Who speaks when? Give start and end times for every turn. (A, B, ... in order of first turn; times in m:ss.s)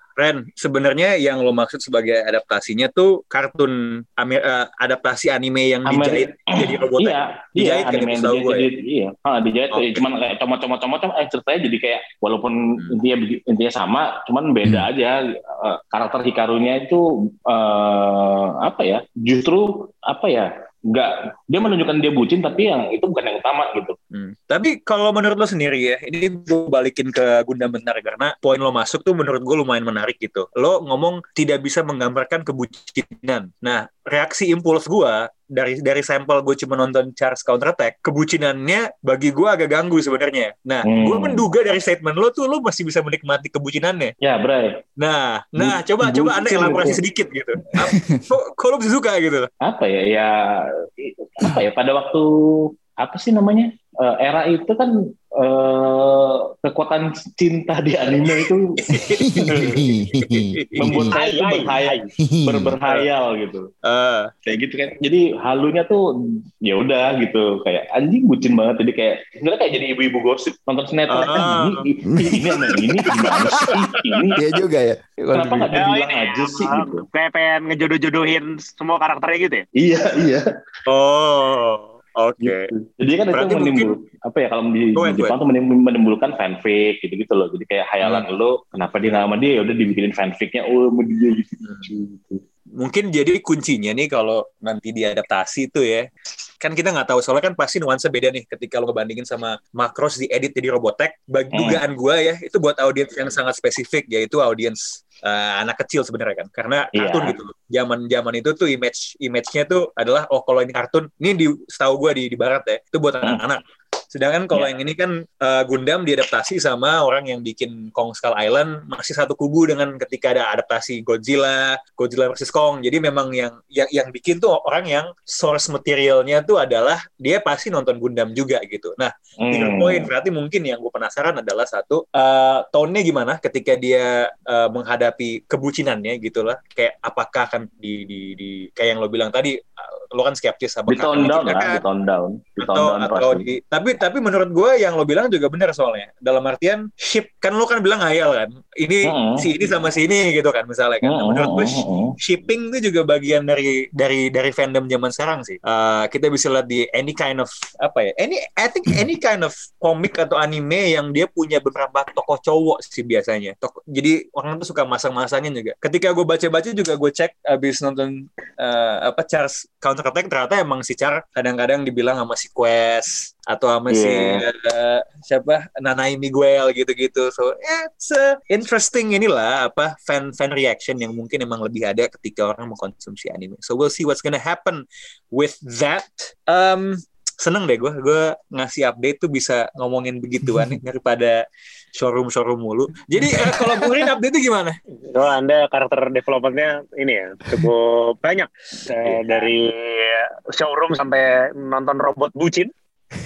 0:00.2-0:08.7 A
0:05.9-0:24.0 B
0:09.7-0:10.0 A
0:24.1-0:44.2 A
0:40.8-0:41.5 B
0:44.2-0:44.8 B
0:45.0-0:49.5 A
0:45.6-0:47.0 B
0:47.8-0:48.2 C
0:49.6-0:59.8 B
0:58.1-1:01.1 A
0:59.2-1:01.2 C
1:00.8-1:03.7 B
1:01.1-1:02.1 D
1:02.2-1:02.8 C
1:03.8-1:04.3 A
1:04.5-1:06.0 B
1:06.6-1:14.4 B
1:11.1-1:11.9 A
1:12.1-1:12.6 C
1:13.3-1:14.2 A
1:14.4-1:15.7 C
1:15.3-1:17.0 B
1:15.7-1:19.6 D
1:19.8-1:20.5 B
1:20.9-1:22.7 A
1:22.4-1:32.4 B
1:23.3-1:23.9 A
1:25.0-1:25.4 A
1:28.0-1:28.3 A
1:32.8-1:36.1 A
1:36.6-2:21.8 A
1:41.5-1:41.8 B
1:47.0-1:47.4 B
2:09.5-2:10.1 B
2:20.9-2:23.5 B
2:22.6-3:11.4 A
2:29.0-2:29.5 B
2:31.0-2:32.2 B
2:53.9-2:54.4 B
3:10.5-3:10.8 C
3:12.0-3:14.8 A
3:15.1-3:22.7 D